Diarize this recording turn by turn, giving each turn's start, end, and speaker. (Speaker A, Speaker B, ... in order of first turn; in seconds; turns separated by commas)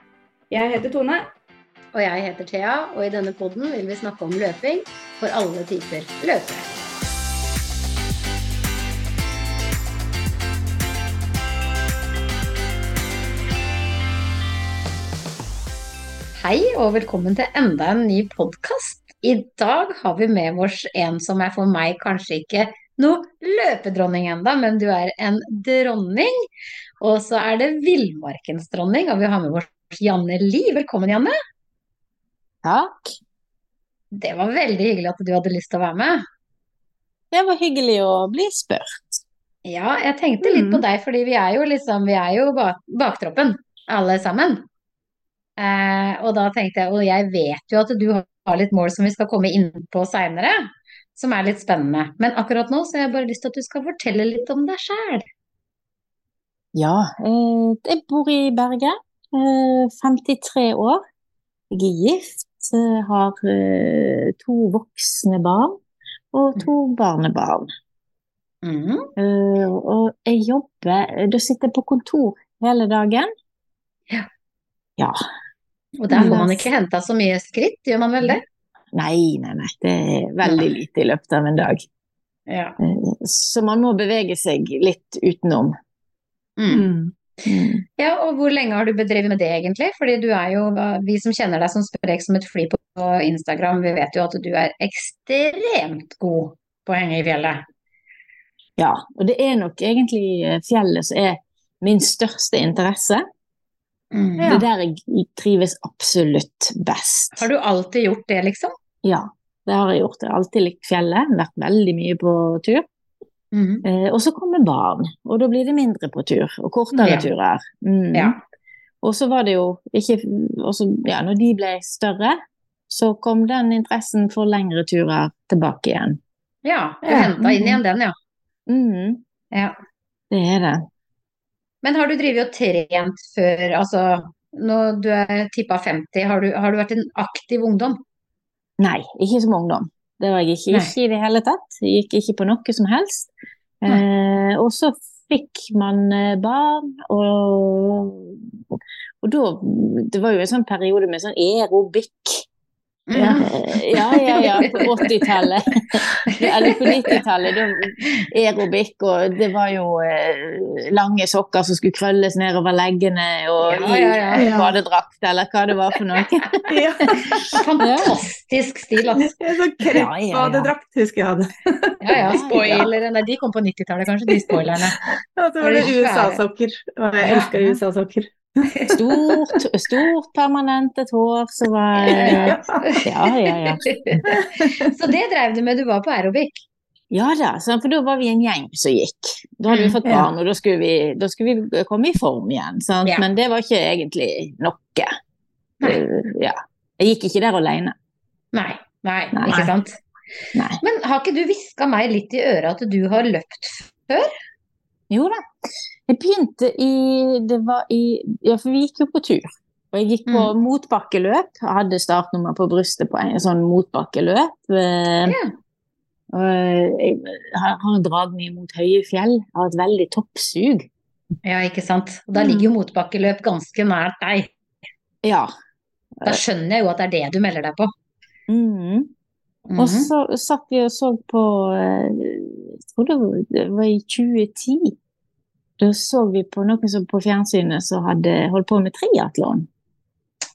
Speaker A: 0.5-1.2, Speaker B: 1.9-6.6, Speaker B: 16.4-26.4, Speaker B: 27.0-31.3, Speaker C: 32.6-33.2, Speaker B: 34.1-36.2, Speaker C: 37.3-39.2, Speaker B: 39.6-44.6, Speaker A: 40.4-40.8, Speaker B: 45.6-55.3, Speaker C: 56.8-61.0, Speaker C: 61.7-65.8, Speaker C: 66.3-67.7, Speaker B: 68.6-69.1, Speaker C: 69.2-73.3, Speaker B: 76.0-78.4, Speaker C: 76.1-76.6, Speaker C: 78.9-81.8, Speaker B: 82.5-82.8, Speaker C: 82.8-85.8, Speaker B: 86.6-86.8, Speaker A: 86.7-87.1, Speaker C: 87.4-87.8, Speaker B: 88.0-97.6, Speaker C: 98.8-103.2, Speaker B: 104.1-104.5, Speaker A: 104.4-104.6, Speaker C: 104.4-107.5, Speaker B: 107.3-108.7, Speaker C: 109.0-112.8, Speaker B: 113.5-113.8, Speaker C: 113.8-118.4, Speaker B: 118.1-118.4, Speaker C: 119.0-122.4, Speaker C: 122.9-126.2, Speaker B: 126.6-128.2, Speaker A: 127.0-127.4, Speaker C: 128.7-129.2, Speaker C: 130.3-130.9, Speaker B: 131.8-138.0, Speaker C: 138.8-143.3, Speaker C: 143.8-152.4, Speaker B: 153.1-155.3, Speaker A: 153.1-153.4, Speaker C: 153.2-166.6, Speaker B: 156.2-157.2, Speaker B: 163.6-164.4, Speaker A: 164.3-164.7, Speaker A: 166.7-167.6, Speaker B: 167.5-169.3, Speaker C: 167.8-168.2, Speaker A: 169.2-172.4, Speaker C: 169.8-170.7, Speaker B: 172.0-175.0, Speaker C: 172.3-172.9, Speaker A: 175.4-179.4, Speaker B: 175.6-176.4, Speaker B: 177.2-177.5, Speaker C: 177.3-177.8, Speaker C: 178.9-183.8, Speaker B: 182.0-186.6, Speaker A: 182.2-182.8, Speaker A: 184.3-184.9, Speaker C: 187.1-195.1, Speaker B: 189.7-190.0, Speaker A: 190.0-190.3, Speaker C: 195.8-197.9, Speaker B: 198.5-200.0, Speaker A: 199.5-199.7, Speaker C: 200.5-200.8, Speaker B: 200.8-204.3, Speaker C: 205.1-205.4, Speaker C: 206.1-215.4, Speaker B: 210.3-210.5, Speaker B: 215.2-215.5, Speaker C: 216.3-220.9, Speaker B: 221.4-224.5, Speaker C: 225.2-225.5, Speaker B: 226.2-227.9, Speaker C: 228.5-229.1, Speaker B: 229.7-230.1, Speaker C: 229.8-234.9, Speaker C: 235.8-239.7